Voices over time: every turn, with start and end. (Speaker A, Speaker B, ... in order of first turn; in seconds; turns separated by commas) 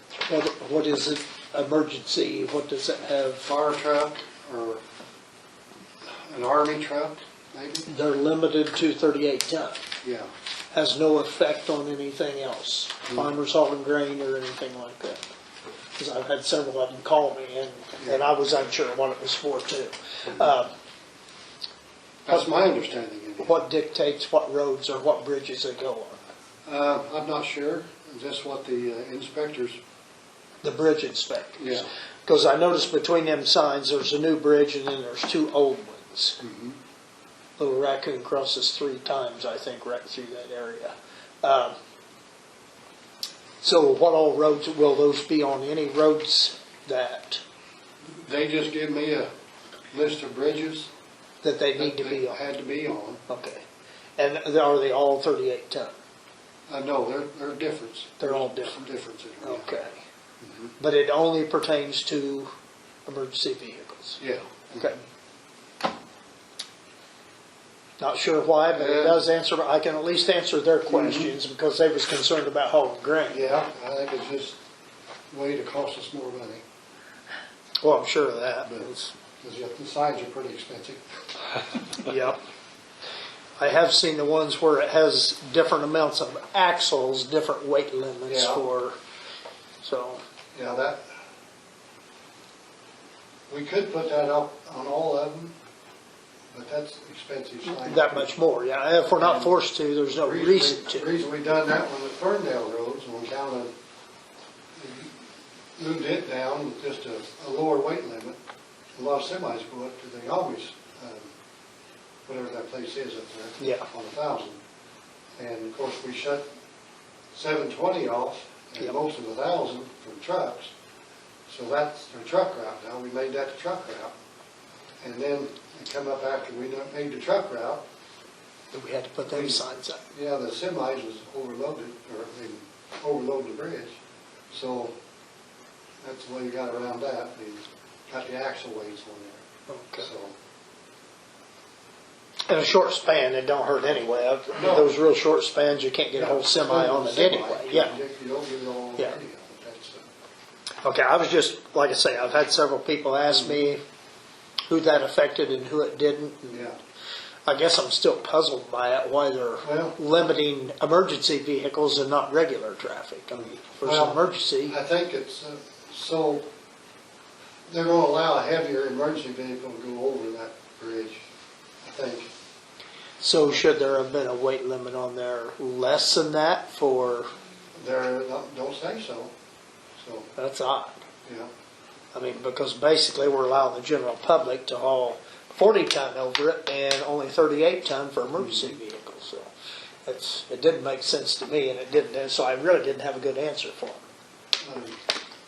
Speaker A: 0.3-3.5, Speaker B: 3.4-4.8, Speaker B: 6.1-7.9, Speaker A: 7.9-9.8, Speaker B: 10.0-10.3, Speaker A: 10.7-15.2, Speaker A: 16.0-20.7, Speaker B: 22.3-23.6, Speaker A: 23.4-26.2, Speaker B: 26.6-29.8, Speaker A: 30.6-36.4, Speaker B: 31.6-31.9, Speaker B: 36.4-36.8, Speaker A: 37.6-41.8, Speaker A: 43.6-47.4, Speaker B: 48.1-49.3, Speaker B: 49.9-50.9, Speaker A: 51.4-52.4, Speaker B: 51.8-53.2, Speaker A: 53.3-53.6, Speaker A: 54.2-56.0, Speaker B: 56.7-59.7, Speaker A: 58.2-58.8, Speaker A: 59.4-60.0, Speaker B: 60.4-60.7, Speaker A: 60.8-62.5, Speaker A: 63.1-64.2, Speaker B: 64.2-64.9, Speaker A: 68.0-73.4, Speaker B: 68.7-69.2, Speaker B: 70.9-71.3, Speaker B: 73.3-74.6, Speaker B: 75.3-76.6, Speaker A: 77.8-79.1, Speaker B: 79.4-81.0, Speaker A: 82.0-82.4, Speaker A: 83.6-89.0, Speaker B: 88.3-88.6, Speaker A: 89.8-90.2, Speaker B: 90.5-91.1, Speaker B: 93.5-95.6, Speaker B: 96.5-98.3, Speaker A: 97.7-101.1, Speaker B: 99.2-99.5, Speaker B: 100.2-103.7, Speaker B: 104.8-105.2, Speaker B: 105.8-108.4, Speaker B: 109.0-111.3, Speaker B: 112.3-114.6, Speaker A: 113.6-113.9, Speaker B: 115.4-116.5, Speaker B: 117.3-120.7, Speaker B: 121.5-124.2, Speaker B: 125.0-127.8, Speaker A: 128.7-130.0, Speaker B: 129.3-134.0, Speaker B: 134.5-134.9, Speaker B: 136.0-139.4, Speaker A: 139.7-140.1, Speaker B: 140.0-140.3, Speaker A: 142.5-148.0, Speaker B: 144.6-144.9, Speaker B: 146.2-150.1, Speaker A: 150.8-153.8, Speaker B: 153.3-153.6, Speaker A: 154.7-156.7, Speaker B: 156.5-156.8, Speaker A: 157.5-164.8, Speaker B: 159.6-160.0, Speaker B: 163.8-166.5, Speaker B: 167.7-171.3, Speaker B: 171.8-172.3, Speaker A: 173.2-177.3, Speaker B: 177.8-179.3, Speaker B: 180.0-180.3, Speaker A: 180.4-181.0, Speaker B: 181.2-181.5, Speaker A: 182.1-189.5, Speaker B: 188.4-188.7, Speaker A: 190.1-194.0, Speaker B: 194.6-195.0